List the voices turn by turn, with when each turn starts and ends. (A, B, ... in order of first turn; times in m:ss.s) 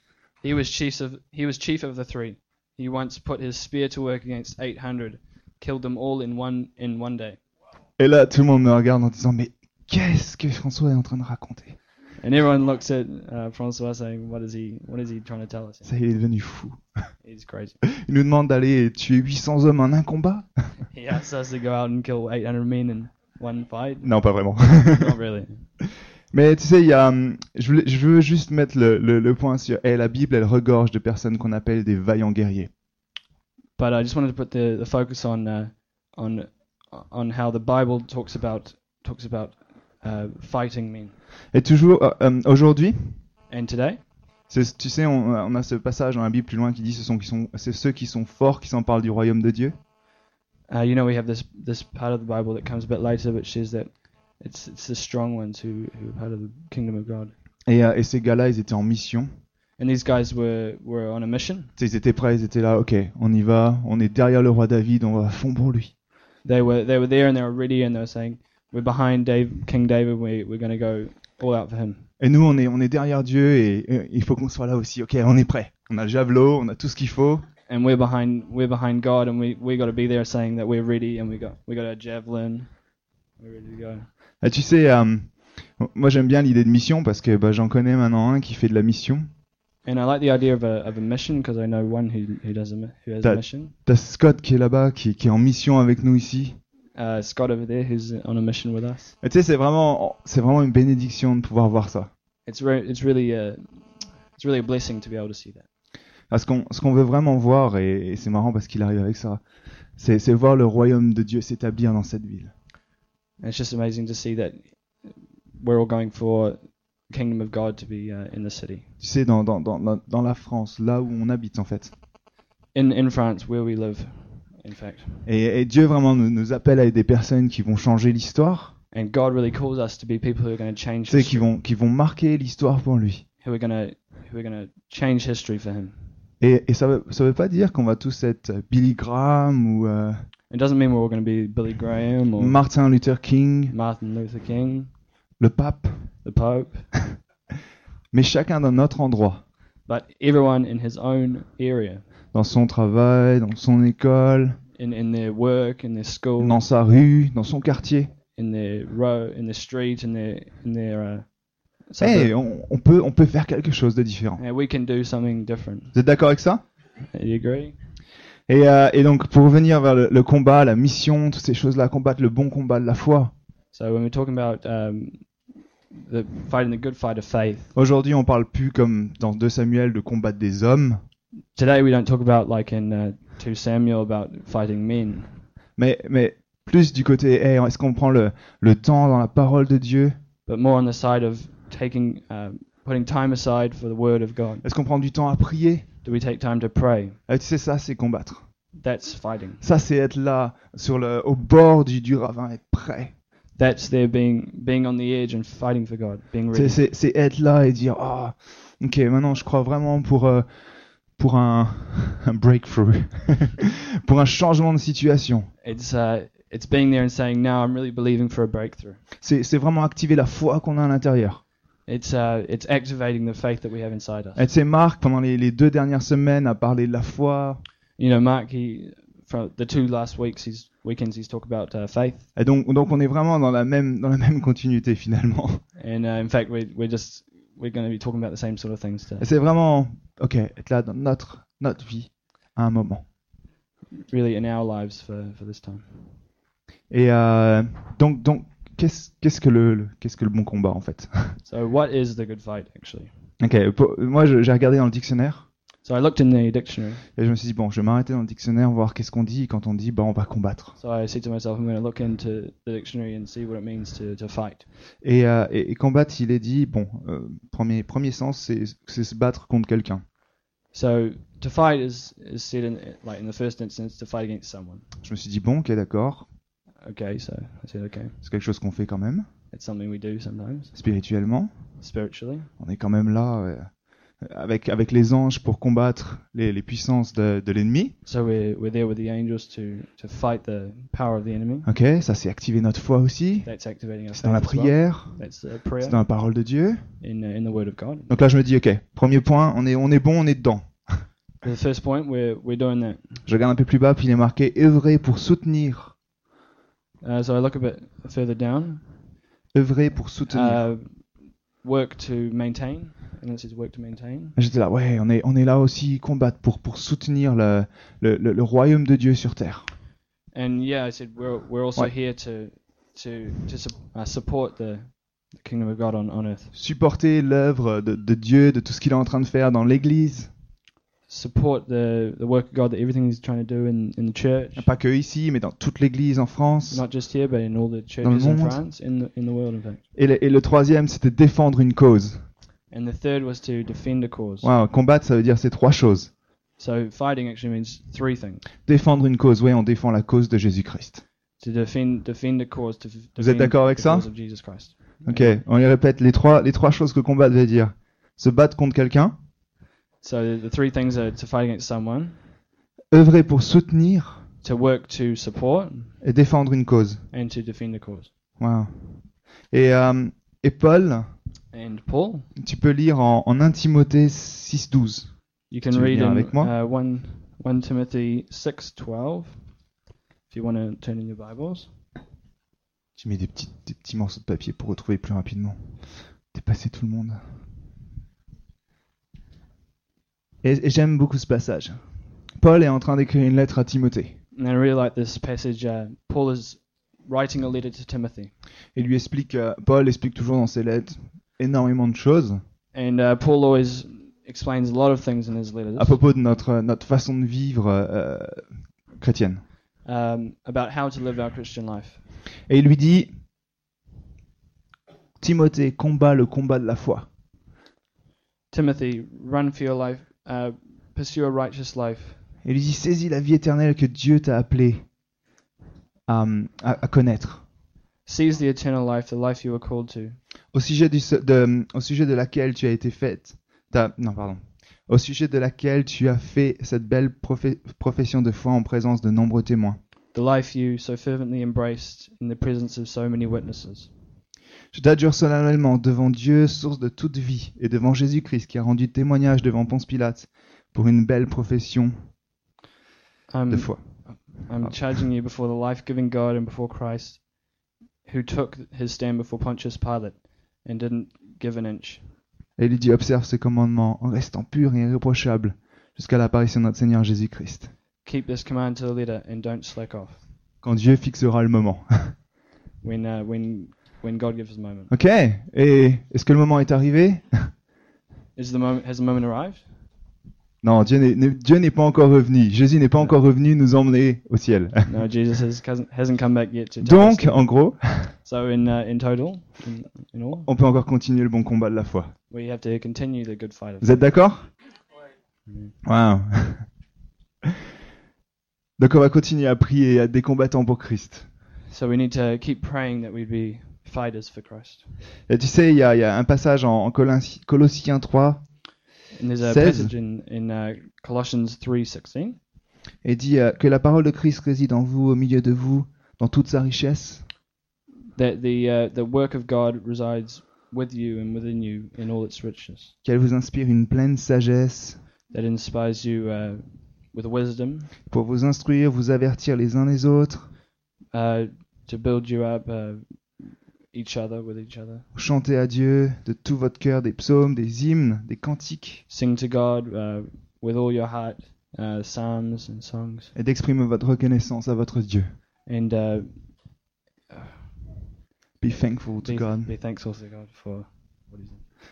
0:00.4-0:07.4 A
0:08.0-0:11.8 B
0:12.2-0:15.9 A
0:15.8-0:17.1 B
0:17.2-0:17.8 A
0:18.0-0:20.6 B
0:20.9-0:25.7 A
0:24.0-0:25.1 B
0:26.3-0:32.7 B
0:33.8-0:41.2 A
0:41.5-0:43.2 B
0:43.5-0:44.0 A
0:44.5-0:49.8 B
0:50.7-0:57.3 A
0:57.6-0:59.3 B
0:59.8-1:01.7 A
1:01.8-1:05.9 B
1:06.4-1:12.0 A
1:12.2-1:17.4 B
1:17.7-1:22.8 A
1:23.4-1:24.1 A
1:24.4-1:29.3 B
1:29.8-1:33.7 A
1:33.2-1:36.6 B
1:36.9-1:39.1 A
1:39.2-1:42.1 B
1:42.4-1:45.6 A
1:46.3-1:49.4 B
1:50.0-1:52.5 B
1:53.4-1:58.9 A
1:59.0-2:01.9 B
2:02.7-2:05.2 A
2:05.2-2:08.7 B
2:08.9-2:11.5 A
2:11.1-2:13.2 B
2:13.4-2:16.0 A
2:16.4-2:20.2 B
2:20.5-2:22.6 A
2:22.4-2:23.7 B
2:23.7-2:24.9 A
2:25.4-2:26.1 B
2:26.2-2:27.0 A
2:28.1-2:29.4 B
2:29.8-2:32.1 A
2:32.3-2:34.6 B
2:34.8-2:36.6 A
2:36.4-2:38.1 B
2:38.3-2:41.3 A
2:41.8-2:42.3 A
2:42.0-2:44.4 B
2:44.4-2:45.9 A
2:45.9-2:46.6 B
2:47.1-2:47.8 A
2:48.5-2:53.3 B
2:53.7-2:57.7 A
2:57.7-3:01.0 B
3:01.5-3:05.4 A
3:05.8-3:10.2 B
3:10.4-3:14.6 A
3:14.6-3:15.9 B
3:16.0-3:17.2 A
3:17.3-3:18.4 B
3:18.8-3:19.6 A
3:19.6-3:23.1 B
3:23.6-3:26.8 A
3:26.5-3:30.5 B
3:31.1-3:35.5 B
3:35.6-3:39.0 A
3:39.2-3:41.4 B
3:41.8-3:44.5 A
3:44.4-3:47.6 B
3:48.0-3:52.3 A
3:52.3-3:55.6 B
3:55.8-3:59.3 A
3:59.2-4:03.1 B
4:04.1-4:06.2 A
4:06.9-4:11.3 B
4:11.4-4:13.1 A
4:13.4-4:15.5 B
4:15.8-4:17.0 A
4:17.2-4:20.8 B
4:20.8-4:24.6 A
4:25.0-4:30.0 B
4:30.7-4:34.8 A
4:35.0-4:36.3 B
4:36.8-4:38.2 A
4:38.2-4:39.3 B
4:39.5-4:40.7 A
4:40.7-4:41.5 B
4:41.8-4:42.5 A
4:42.6-4:47.9 B
4:48.0-4:51.7 A
4:51.6-4:53.6 B
4:53.4-4:56.0 A
4:54.1-4:56.8 B
4:57.0-4:58.1 A
4:58.1-5:01.1 B
5:01.4-5:03.2 A
5:03.2-5:06.0 B
5:07.0-5:08.9 A
5:09.5-5:10.6 B
5:10.3-5:14.4 A
5:14.4-5:19.7 B
5:20.3-5:26.5 A
5:26.5-5:30.3 B
5:31.1-5:34.7 A
5:34.6-5:36.8 B
5:36.7-5:39.8 A
5:38.0-5:38.6 B
5:39.9-5:42.2 B
5:42.7-5:44.5 A
5:44.4-5:46.1 B
5:46.6-5:48.4 A
5:48.6-5:51.0 B
5:51.4-5:55.4 A
5:53.2-5:54.1 B
5:55.0-5:59.1 B
6:00.0-6:02.2 A
6:02.9-6:04.2 B
6:04.4-6:06.0 A
6:06.0-6:07.0 B
6:07.1-6:08.1 A
6:08.4-6:11.1 B
6:11.5-6:12.3 A
6:12.4-6:16.5 B
6:15.5-6:19.6 A
6:20.3-6:21.7 A
6:23.0-6:27.2 B
6:30.4-6:31.8 B
6:32.4-6:34.2 B
6:34.3-6:38.3 A
6:38.7-6:42.4 B
6:42.7-6:46.0 A
6:45.8-6:49.4 B
6:49.8-6:52.0 A
6:52.5-6:53.1 B
6:55.2-6:57.1 B
6:58.5-7:02.2 A
7:02.4-7:04.8 B
7:06.1-7:07.4 B
7:08.0-7:10.2 A
7:10.5-7:19.8 B
7:20.1-7:23.9 A
7:24.7-7:31.9 B
7:33.3-7:37.3 A
7:33.5-7:34.9 B
7:38.0-7:42.0 A
7:42.6-7:47.7 B
7:48.0-7:50.2 A
7:50.6-7:52.1 B
7:52.8-7:54.9 A
7:54.9-7:57.5 B
7:58.4-7:59.7 A
8:00.6-8:05.0 B
8:04.9-8:10.5 A
8:06.8-8:08.1 B
8:10.4-8:12.1 B
8:12.3-8:14.2 A
8:13.8-8:14.5 B
8:15.4-8:15.8 A
8:15.8-8:16.7 B
8:18.8-8:21.2 B
8:21.7-8:24.8 A
8:25.3-8:28.4 B
8:29.1-8:32.4 A
8:29.4-8:29.9 B
8:33.0-8:37.2 B
8:38.1-8:42.9 A
8:43.0-8:45.0 B
8:45.3-8:47.9 A
8:48.1-8:50.5 B
8:51.1-8:55.0 A
8:55.1-8:59.0 B
8:59.1-9:03.3 A
9:03.3-9:05.3 B
9:05.6-9:06.8 A
9:07.3-9:08.0 A
9:08.6-9:09.7 B
9:09.2-9:11.6 A